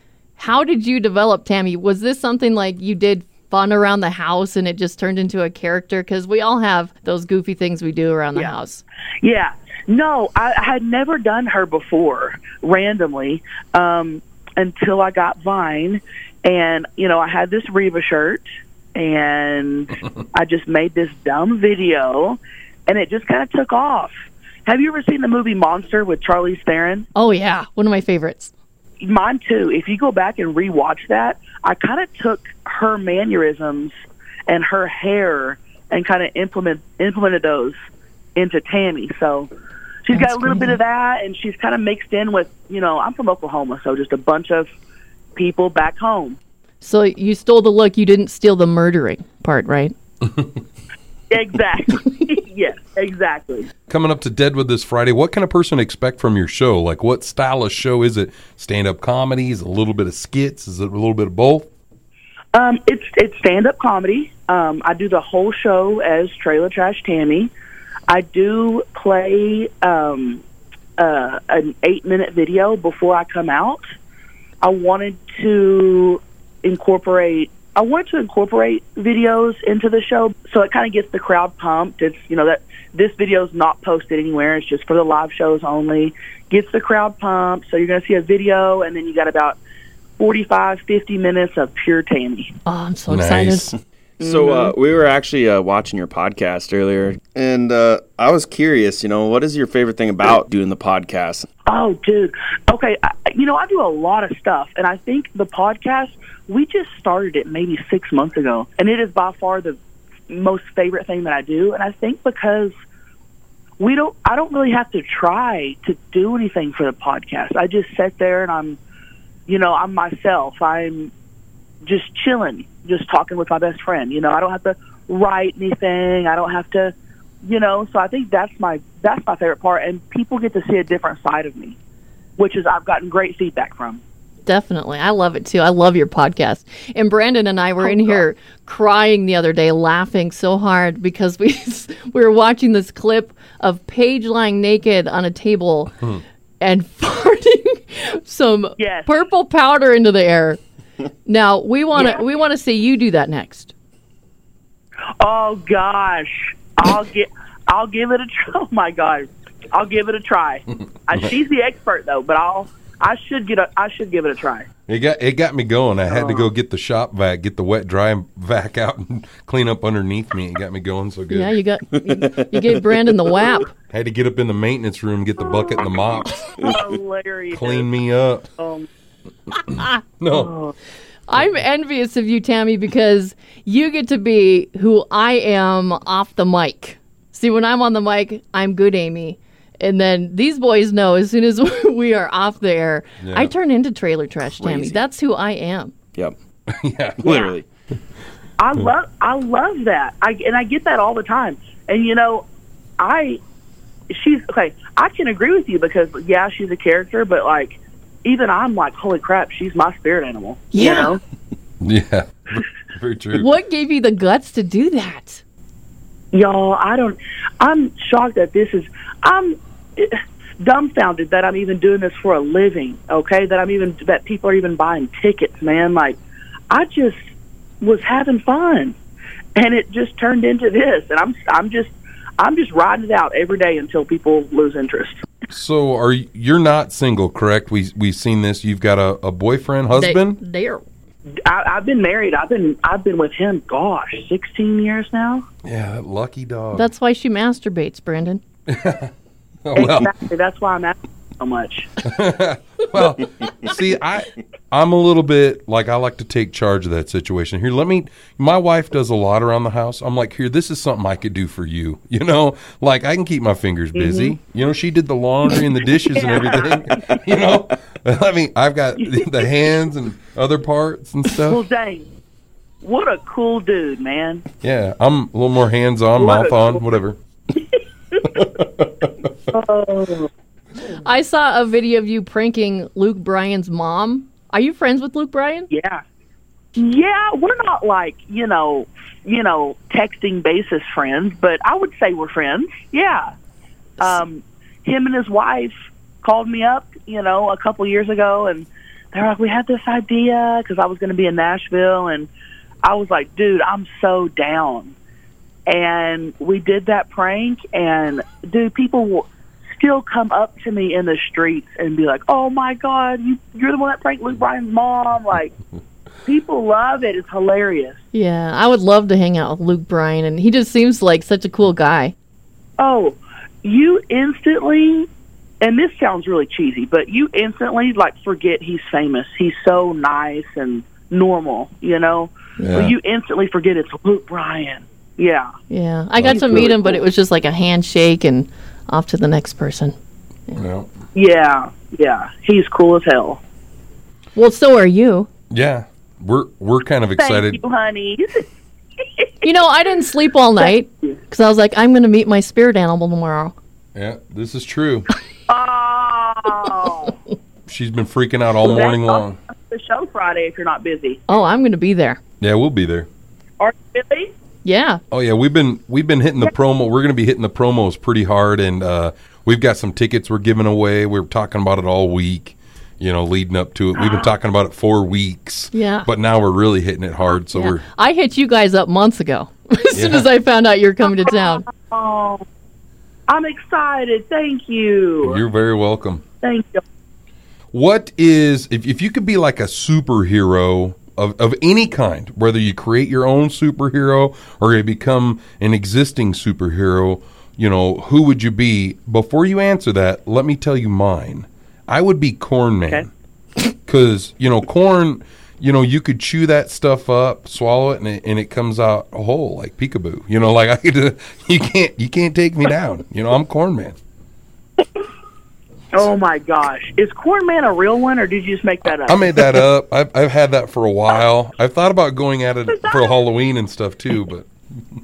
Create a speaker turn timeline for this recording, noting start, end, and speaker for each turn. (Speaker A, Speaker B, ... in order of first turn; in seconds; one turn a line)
Speaker A: 0.4-8.8
Speaker B: 9.2-18.4
Speaker B: 18.9-24.1
Speaker B: 24.7-27.1
Speaker A: 27.1-28.5
Speaker B: 29.0-33.9
Speaker B: 34.5-37.8
Speaker B: 38.4-39.5
Speaker B: 40.1-44.7
Speaker A: 40.1-40.8
Speaker B: 45.4-46.4
Speaker A: 46.8-49.9
Speaker B: 51.3-53.7
Speaker C: 53.9-61.7
Speaker B: 62.5-67.5
Speaker B: 68.1-70.4
Speaker B: 71.0-73.8
Speaker B: 74.6-89.6
Speaker B: 90.2-92.5
Speaker A: 92.7-93.8
Speaker C: 93.1-93.7
Speaker D: 94.2-101.5
Speaker B: 94.2-94.7
Speaker B: 101.7-109.8
Speaker B: 110.3-112.7
Speaker B: 113.8-118.8
Speaker B: 119.5-121.1
Speaker B: 121.8-131.8
Speaker B: 132.4-134.0
Speaker A: 134.5-146.0
Speaker B: 137.8-138.2
Speaker A: 146.6-150.6
Speaker B: 148.8-149.2
Speaker A: 151.2-153.7
Speaker B: 151.9-152.2
Speaker B: 155.2-164.7
Speaker C: 164.9-171.6
Speaker B: 166.1-166.5
Speaker A: 171.3-173.7
Speaker D: 172.0-173.0
Speaker C: 173.9-176.7
Speaker B: 175.4-175.9
Speaker B: 176.6-177.9
Speaker C: 177.5-178.5
Speaker B: 178.6-178.9
Speaker C: 179.7-180.5
Speaker B: 180.3-180.7
Speaker A: 181.3-195.9
Speaker C: 193.2-193.5
Speaker D: 194.6-195.0
Speaker C: 196.8-197.3
Speaker D: 197.2-197.7
Speaker B: 198.6-202.5
Speaker B: 203.0-203.4
Speaker B: 204.1-211.2
Speaker A: 210.7-211.1
Speaker C: 211.8-213.5
Speaker A: 213.3-215.4
Speaker B: 216.3-226.2
Speaker B: 226.7-227.2
Speaker B: 227.8-229.0
Speaker B: 229.6-235.2
Speaker C: 235.5-240.4
Speaker A: 239.9-240.8
Speaker B: 241.5-245.4
Speaker C: 245.7-246.9
Speaker A: 246.7-248.4
Speaker C: 248.7-249.1
Speaker C: 249.7-250.1
Speaker B: 249.7-251.9
Speaker C: 252.0-271.6
Speaker B: 263.9-264.4
Speaker B: 265.6-267.2
Speaker B: 269.0-269.6
Speaker B: 271.4-272.1
Speaker B: 272.8-274.4
Speaker C: 274.6-277.2
Speaker B: 276.2-276.8
Speaker C: 278.3-279.3
Speaker B: 279.5-280.3
Speaker A: 280.9-285.7
Speaker B: 285.7-286.0
Speaker B: 286.8-293.3
Speaker B: 294.0-302.3
Speaker B: 302.8-304.9
Speaker B: 305.7-315.5
Speaker B: 316.2-318.0
Speaker A: 318.1-322.1
Speaker B: 322.8-325.1
Speaker B: 325.6-335.5
Speaker C: 332.6-332.9
Speaker A: 335.7-339.9
Speaker C: 336.2-336.7
Speaker B: 336.3-337.0
Speaker C: 340.5-340.9
Speaker B: 341.1-343.4
Speaker A: 344.4-345.3
Speaker C: 345.5-347.6
Speaker B: 347.2-348.5
Speaker B: 349.0-349.5
Speaker A: 349.4-353.5
Speaker B: 350.6-351.2
Speaker C: 353.9-355.1
Speaker B: 355.5-357.1
Speaker C: 357.7-359.4
Speaker B: 358.6-361.2
Speaker A: 361.3-362.2
Speaker C: 362.4-363.1
Speaker B: 363.6-364.3
Speaker A: 364.6-365.0
Speaker C: 365.1-377.8
Speaker B: 374.0-374.3
Speaker A: 375.7-376.1
Speaker A: 377.5-381.6
Speaker C: 379.9-380.3
Speaker B: 381.0-382.4
Speaker B: 383.3-385.4
Speaker C: 385.2-386.2
Speaker B: 386.4-386.8
Speaker C: 387.7-403.1
Speaker C: 403.9-413.9
Speaker B: 415.9-419.6
Speaker C: 418.9-424.5
Speaker B: 422.7-423.1